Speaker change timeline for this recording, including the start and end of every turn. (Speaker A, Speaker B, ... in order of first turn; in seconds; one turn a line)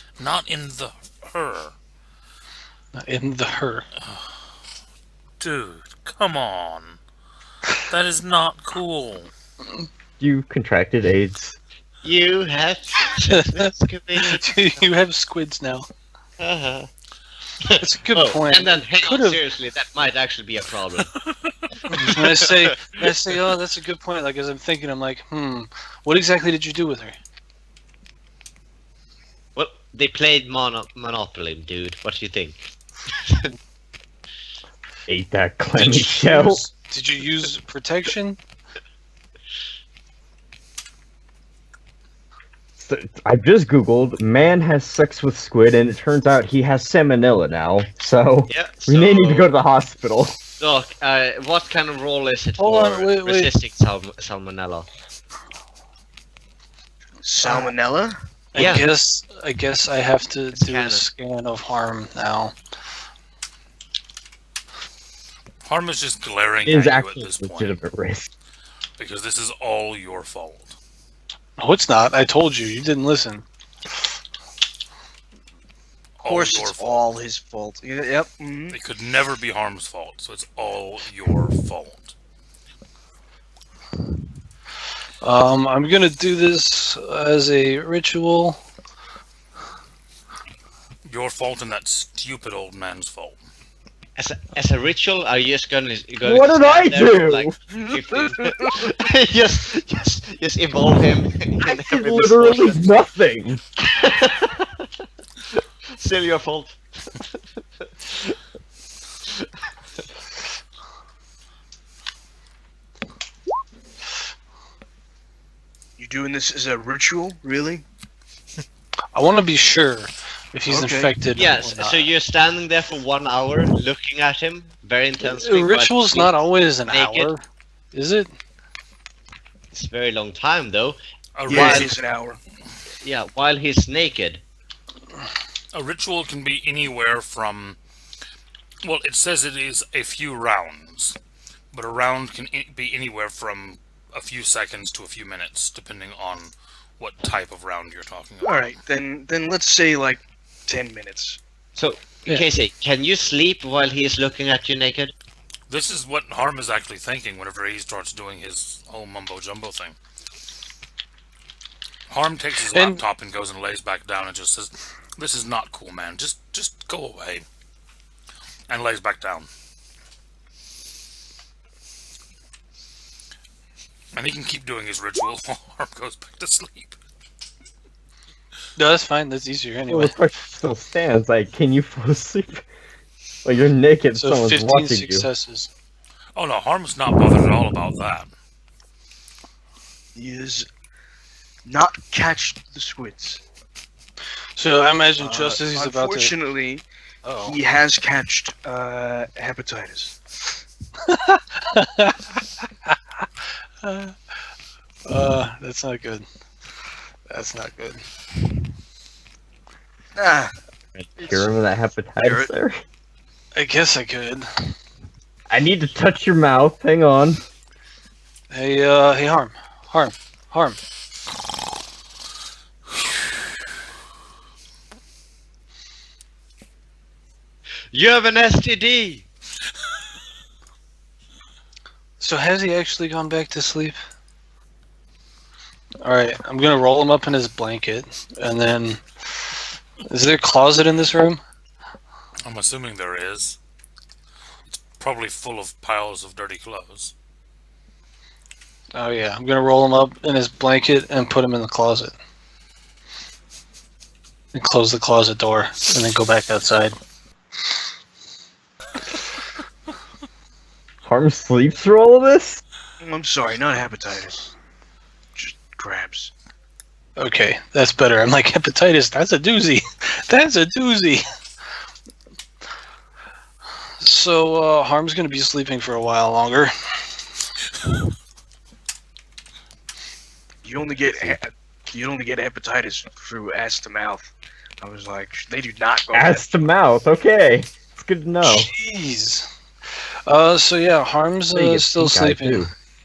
Speaker A: 0.2-1.7
Speaker B: 2.9-3.9
Speaker A: 5.4-7.0
Speaker A: 7.9-9.3
Speaker C: 10.2-11.5
Speaker D: 12.0-14.8
Speaker B: 13.3-15.9
Speaker D: 16.4-16.9
Speaker D: 17.6-21.1
Speaker B: 17.8-19.4
Speaker B: 21.9-27.1
Speaker D: 21.9-23.4
Speaker D: 29.6-32.6
Speaker C: 35.1-36.6
Speaker B: 35.7-38.4
Speaker C: 42.8-50.4
Speaker D: 48.5-49.5
Speaker D: 50.6-54.9
Speaker B: 52.6-53.5
Speaker E: 57.2-58.7
Speaker B: 58.5-62.5
Speaker D: 58.5-58.9
Speaker D: 60.5-61.0
Speaker A: 65.6-67.8
Speaker C: 66.6-68.3
Speaker A: 69.0-70.8
Speaker B: 71.6-73.4
Speaker A: 76.2-77.0
Speaker E: 76.2-78.8
Speaker A: 78.7-82.1
Speaker B: 85.2-88.6
Speaker A: 91.0-93.4
Speaker D: 94.2-102.9
Speaker C: 96.2-97.6
Speaker C: 101.6-103.6
Speaker D: 103.8-104.8
Speaker D: 105.9-108.3
Speaker E: 116.0-117.8
Speaker B: 119.1-122.1
Speaker E: 120.7-121.2
Speaker D: 121.3-127.3
Speaker B: 125.2-128.3
Speaker D: 129.7-131.9
Speaker A: 131.3-131.9
Speaker E: 131.5-132.4
Speaker D: 133.0-134.4
Speaker A: 135.7-137.8
Speaker A: 138.8-141.2
Speaker A: 141.7-148.8
Speaker E: 148.4-151.4
Speaker D: 151.7-155.1
Speaker A: 155.7-159.9
Speaker A: 162.1-167.4
Speaker B: 162.7-163.0
Speaker A: 168.7-169.5
Speaker A: 174.1-177.0
Speaker B: 178.8-180.2
Speaker C: 179.9-182.6
Speaker C: 183.4-185.3
Speaker B: 184.1-185.7
Speaker A: 186.3-188.3
Speaker E: 190.1-190.7
Speaker E: 191.7-193.4
Speaker B: 194.6-196.3
Speaker E: 195.2-196.8
Speaker B: 197.2-197.6
Speaker E: 197.4-200.2
Speaker B: 201.1-202.3
Speaker B: 203.8-204.1
Speaker B: 205.0-206.2
Speaker B: 207.3-208.0
Speaker E: 210.1-210.5
Speaker D: 210.9-211.3
Speaker C: 211.2-212.8
Speaker E: 212.2-212.5
Speaker B: 213.5-214.5
Speaker C: 215.5-217.4
Speaker B: 218.5-220.8
Speaker D: 227.9-229.2
Speaker B: 232.2-233.9
Speaker B: 236.0-239.0
Speaker B: 240.1-241.4
Speaker A: 242.4-243.6
Speaker A: 244.7-247.1
Speaker B: 248.9-252.1
Speaker B: 254.5-256.9
Speaker C: 261.0-262.6
Speaker E: 263.0-264.5
Speaker E: 265.4-266.3
Speaker B: 267.2-271.2
Speaker B: 274.0-276.7
Speaker E: 280.6-286.5
Speaker C: 286.1-288.7
Speaker B: 288.4-289.5
Speaker B: 290.2-292.7
Speaker C: 291.5-292.7